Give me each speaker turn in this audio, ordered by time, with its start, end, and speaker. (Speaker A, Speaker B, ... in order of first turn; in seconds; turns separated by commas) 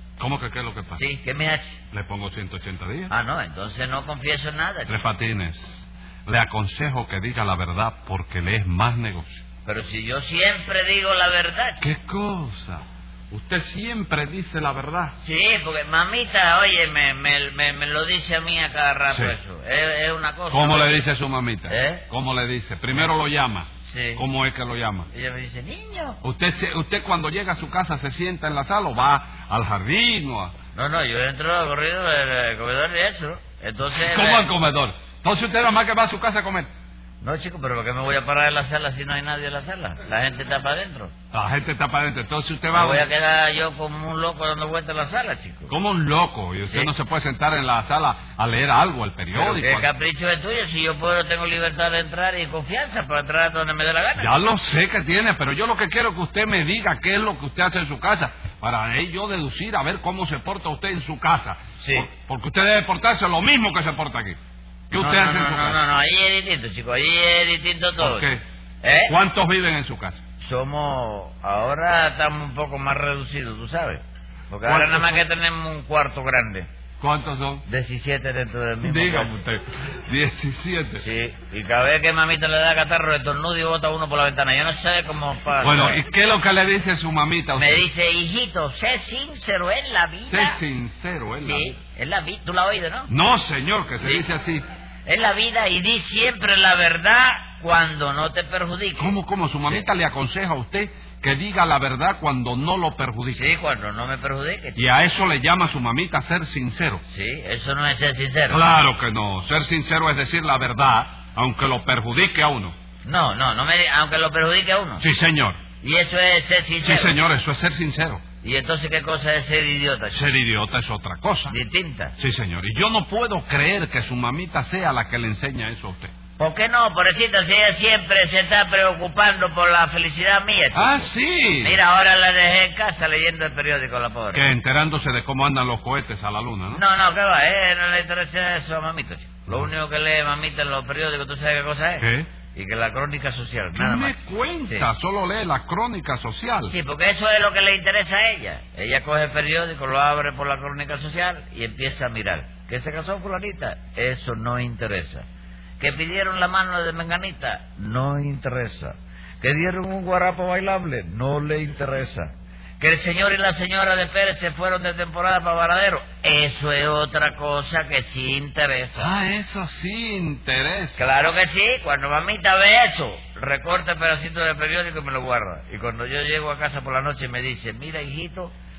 Speaker A: 0.2-1.0, Speaker B: 0.9-1.8, Speaker A: 1.9-3.1, Speaker B: 3.1-5.0, Speaker A: 4.9-9.4, Speaker B: 9.7-11.8, Speaker A: 11.8-15.1, Speaker B: 15.2-21.0, Speaker A: 19.1-19.3, Speaker A: 20.5-25.1, Speaker B: 21.7-22.0, Speaker B: 23.9-24.2, Speaker B: 25.1-26.2, Speaker A: 26.2-30.5, Speaker B: 30.7-34.5, Speaker A: 33.9-36.7, Speaker B: 37.2-41.1, Speaker A: 41.3-43.1, Speaker B: 42.7-45.7, Speaker A: 45.7-49.9, Speaker B: 46.6-46.9, Speaker B: 49.3-54.3, Speaker A: 54.2-64.4, Speaker B: 61.8-62.1, Speaker A: 64.9-65.8, Speaker B: 64.9-69.1, Speaker A: 68.0-68.4, Speaker A: 69.0-70.2, Speaker B: 70.4-76.7, Speaker A: 74.6-75.2, Speaker A: 77.0-77.6, Speaker B: 77.7-79.3, Speaker A: 78.8-81.0, Speaker B: 81.0-86.0, Speaker A: 85.6-87.8, Speaker B: 87.5-90.6, Speaker A: 90.2-91.7, Speaker B: 91.4-93.1, Speaker A: 93.1-94.6, Speaker B: 94.0-94.2, Speaker B: 95.0-99.2, Speaker A: 99.0-103.5, Speaker B: 103.3-104.8, Speaker A: 104.8-107.0, Speaker B: 107.1-108.6, Speaker A: 108.5-112.7, Speaker B: 113.0-115.0, Speaker A: 115.0-115.6, Speaker B: 115.8-117.2, Speaker A: 116.8-118.2, Speaker B: 118.4-120.3, Speaker A: 120.1-121.5, Speaker B: 121.5-122.1, Speaker A: 122.2-126.1, Speaker B: 126.4-134.4, Speaker A: 130.7-131.8, Speaker A: 134.3-136.8, Speaker B: 136.7-144.9, Speaker A: 142.0-142.3, Speaker A: 143.8-146.7, Speaker B: 146.7-155.2, Speaker B: 155.8-169.1, Speaker A: 169.0-171.0, Speaker B: 171.0-178.5